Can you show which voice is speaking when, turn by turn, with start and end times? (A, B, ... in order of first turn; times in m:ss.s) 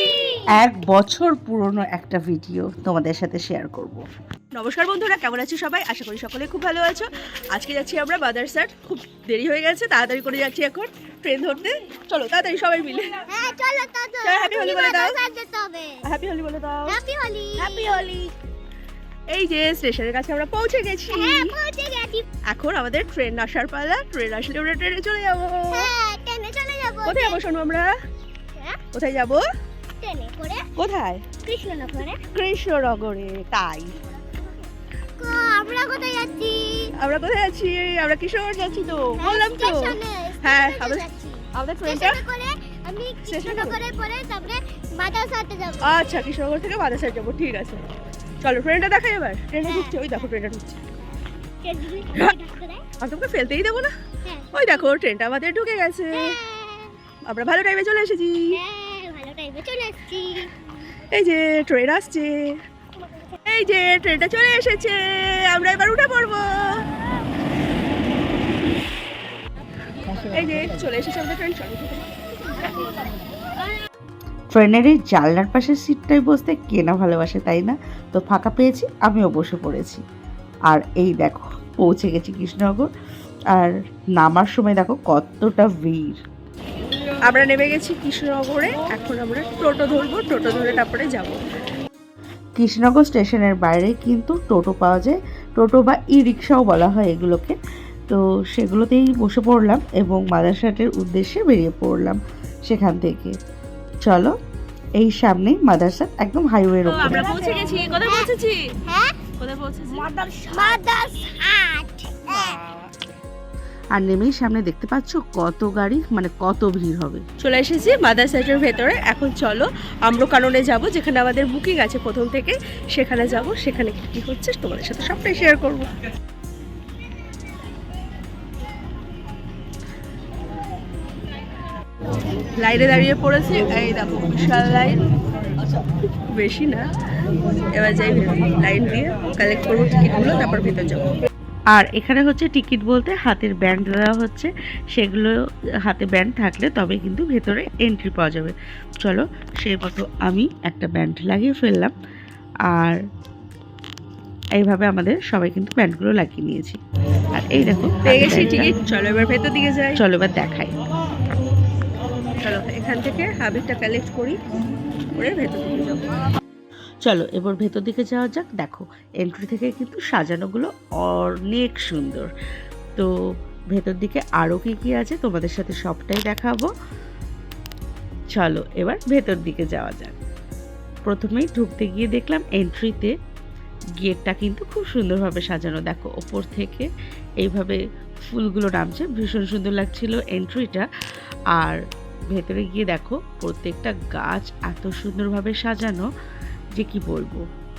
0:00.5-0:04.0 A
0:04.5-0:13.2 B
0:13.3-0:16.1 C
0:14.2-0:15.1 B
0:16.0-0:17.0 B
0:16.8-0:18.1 C
0:17.6-0:18.3 B
0:19.3-0:21.5 B
0:21.1-0:22.3 C
0:22.4-0:25.9 B
0:25.7-0:27.4 C
0:27.0-0:27.9 B
0:28.9-0:29.4 B
0:30.0-0:30.7 C
0:30.8-0:31.3 B
0:31.4-0:32.3 C
0:32.3-0:33.9 B
0:35.2-0:36.9 C
0:37.0-0:42.2 B
0:39.2-0:46.1 C
0:43.3-0:43.8 B
0:45.8-0:47.8 B
0:48.4-0:50.8 B
0:49.6-0:50.3 C
0:51.6-0:52.9 C
0:53.0-0:53.9 B
0:54.2-0:54.5 C
0:54.5-0:56.4 B
0:56.1-0:56.9 C
0:57.3-0:58.6 B
0:58.5-1:00.5 C
1:01.1-1:02.6 B
1:03.5-1:06.8 B
1:10.3-1:12.1 B
1:14.5-1:20.0 A
1:20.7-1:22.9 A
1:23.5-1:26.2 A
1:27.3-1:31.4 B
1:32.6-1:37.6 A
1:38.1-1:43.3 A
1:44.0-1:44.3 A
1:45.0-1:47.3 A
1:46.9-1:48.7 B
1:47.4-1:48.3 C
1:48.8-1:49.3 C
1:49.4-1:50.8 B
1:49.9-1:52.6 C
1:52.3-1:52.9 B
1:53.9-1:57.2 A
1:57.4-2:05.9 B
2:12.6-2:15.0 B
2:16.4-2:16.8 B
2:17.7-2:21.1 B
2:21.7-2:25.3 A
2:25.9-2:31.9 A
2:32.7-2:33.0 A
2:34.6-2:36.8 A
2:37.3-2:38.8 A
2:38.0-2:40.0 B
2:40.0-2:40.7 A
2:42.4-2:44.4 B
2:45.2-2:46.1 B
2:47.0-2:52.3 A
2:53.7-2:56.7 A
2:58.3-3:00.1 A
3:01.0-3:03.1 A
3:04.0-3:06.9 A
3:07.4-3:10.9 A
3:12.3-3:16.0 A
3:16.8-3:17.4 A